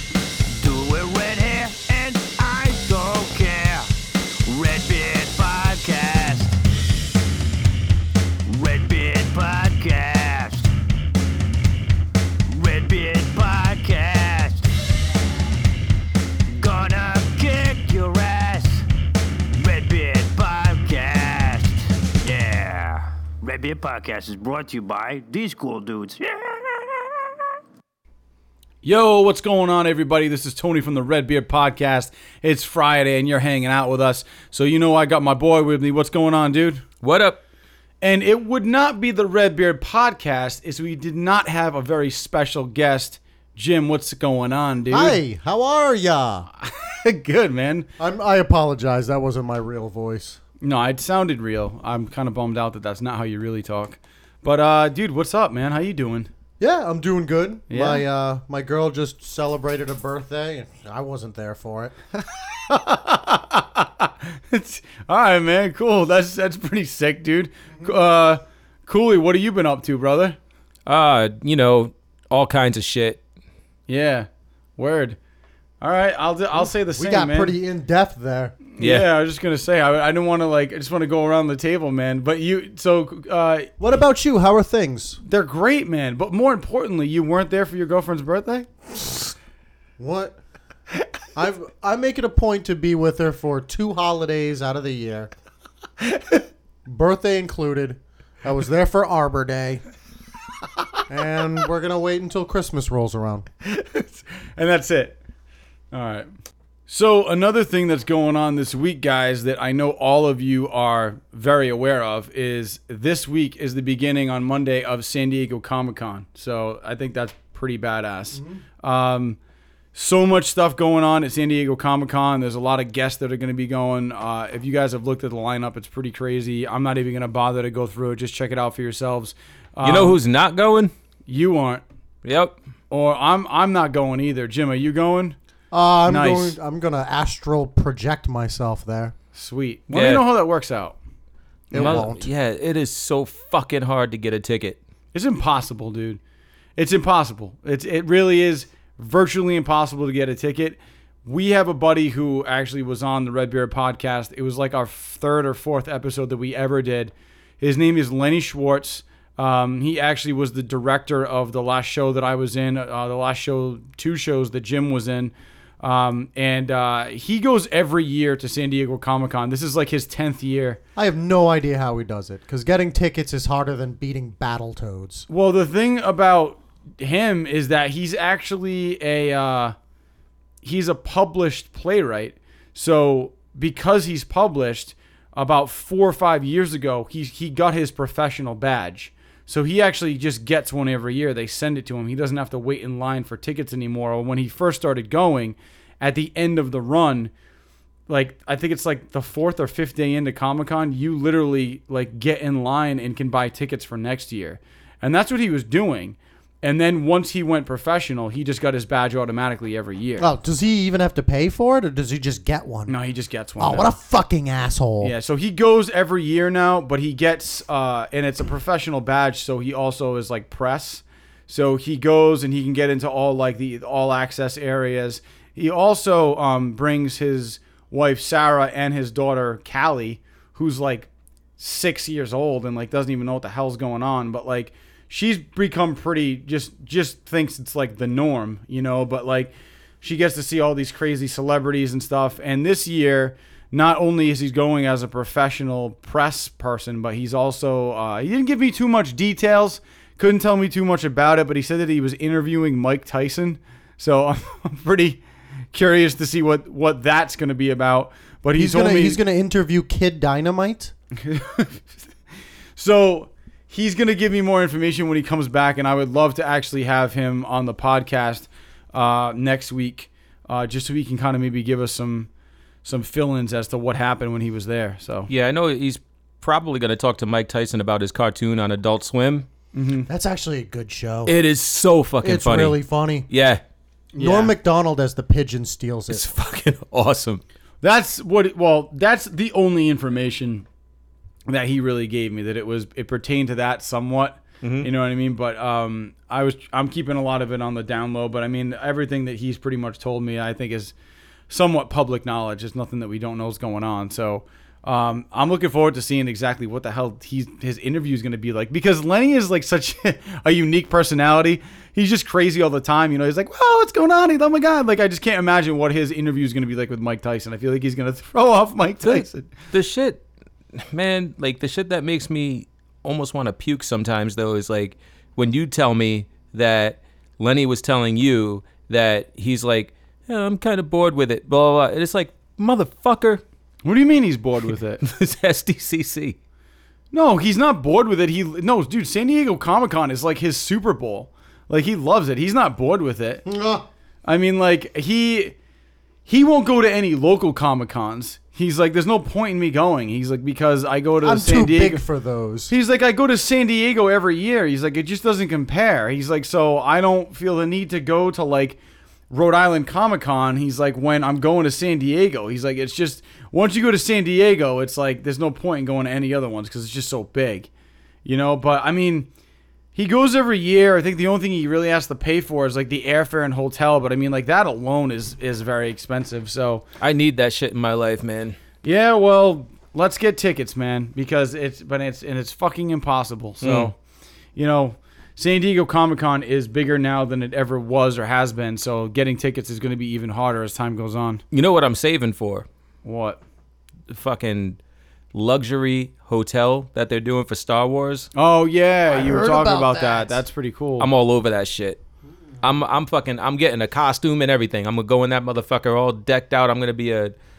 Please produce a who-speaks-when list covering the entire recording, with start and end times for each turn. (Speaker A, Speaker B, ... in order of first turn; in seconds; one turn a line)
Speaker A: 0.5-3.9
Speaker A: 4.5-6.6
Speaker A: 8.5-10.7
Speaker A: 12.5-14.7
Speaker A: 16.5-18.9
Speaker A: 19.6-26.9
Speaker B: 28.8-36.8
Speaker C: 37.0-37.4
Speaker B: 38.0-45.2
Speaker D: 44.9-46.5
Speaker B: 46.6-47.9
Speaker D: 48.0-50.4
Speaker B: 50.6-56.3
Speaker D: 56.6-62.0
Speaker B: 57.7-58.0
Speaker B: 62.7-70.4
Speaker C: 70.9-73.2
Speaker B: 73.9-75.2
Speaker B: 75.8-77.5
Speaker D: 76.6-78.6
Speaker B: 78.7-83.7
Speaker C: 78.8-79.0
Speaker D: 83.8-85.2
Speaker B: 85.2-88.7
Speaker D: 90.0-90.4
Speaker D: 91.3-95.3
Speaker D: 96.9-99.8
Speaker D: 101.1-103.5
Speaker B: 103.6-105.2
Speaker B: 105.9-106.3
Speaker B: 106.9-119.4
Speaker B: 119.9-130.2
Speaker C: 129.8-130.9
Speaker B: 131.3-131.8
Speaker C: 132.2-132.6
Speaker B: 132.9-135.3
Speaker D: 135.7-139.1
Speaker B: 136.1-136.6
Speaker B: 139.3-141.0
Speaker C: 139.9-140.2
Speaker B: 141.7-142.1
Speaker D: 141.7-142.3
Speaker C: 141.7-144.8
Speaker B: 145.1-146.2
Speaker B: 146.8-170.8
Speaker D: 171.0-175.2
Speaker B: 175.3-179.8
Speaker B: 180.6-197.3
Speaker B: 198.1-210.3
Speaker D: 210.2-212.9
Speaker B: 212.9-213.9
Speaker D: 213.6-215.1
Speaker B: 215.0-259.2
Speaker D: 258.6-260.9
Speaker B: 261.2-261.9
Speaker B: 262.8-272.3
Speaker B: 272.8-275.3
Speaker C: 275.3-279.5
Speaker B: 279.7-280.1
Speaker D: 280.1-281.3
Speaker C: 281.2-283.6
Speaker D: 282.2-283.3
Speaker B: 284.1-284.5
Speaker D: 284.2-286.2
Speaker C: 286.1-287.4
Speaker B: 287.8-290.6
Speaker B: 291.5-300.9
Speaker C: 294.6-294.9
Speaker B: 301.5-319.5
Speaker C: 319.0-333.4
Speaker B: 333.8-335.0
Speaker C: 335.0-336.4
Speaker B: 337.1-343.4
Speaker D: 343.4-343.9
Speaker B: 344.3-345.6
Speaker B: 346.2-352.0
Speaker D: 351.2-352.7
Speaker B: 352.7-358.8
Speaker B: 359.3-367.7
Speaker B: 368.2-369.3
Speaker B: 369.9-376.8
Speaker C: 377.0-378.6
Speaker B: 378.8-383.9
Speaker C: 383.6-383.9
Speaker B: 384.6-391.4
Speaker C: 391.5-392.6
Speaker B: 393.0-393.4
Speaker C: 394.1-394.8
Speaker C: 395.3-398.3
Speaker B: 398.3-401.1
Speaker D: 399.1-400.3
Speaker C: 401.0-402.0
Speaker C: 402.6-407.3